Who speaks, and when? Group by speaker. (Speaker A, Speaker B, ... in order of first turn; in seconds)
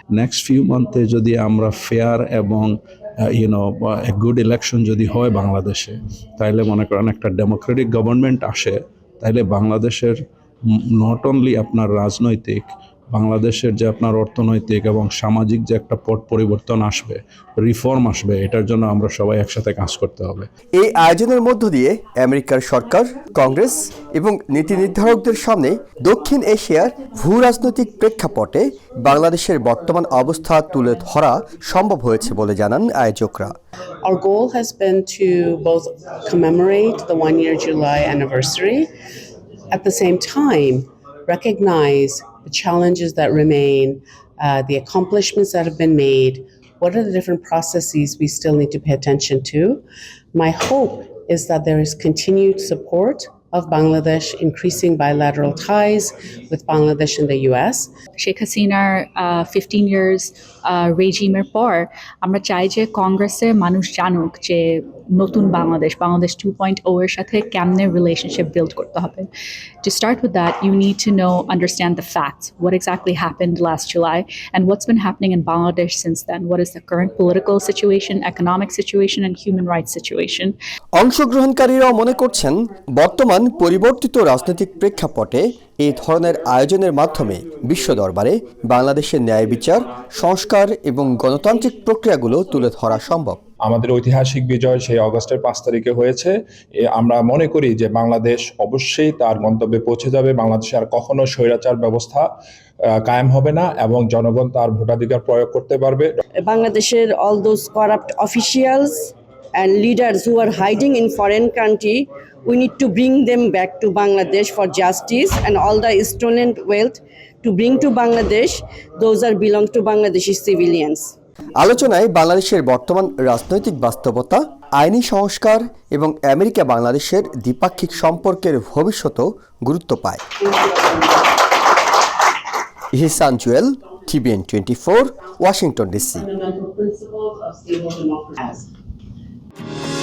Speaker A: 0.1-20.5
Speaker B: 20.8-33.5, 81.0-93.4, 121.6-130.2, 132.9-136.3
Speaker C: 34.0-38.9, 39.7-57.9, 130.6-130.9, 136.2-138.7
Speaker D: 58.2-69.3, 69.8-80.5
Speaker E: 93.6-102.3, 103.0-106.1
Speaker F: 106.4-121.1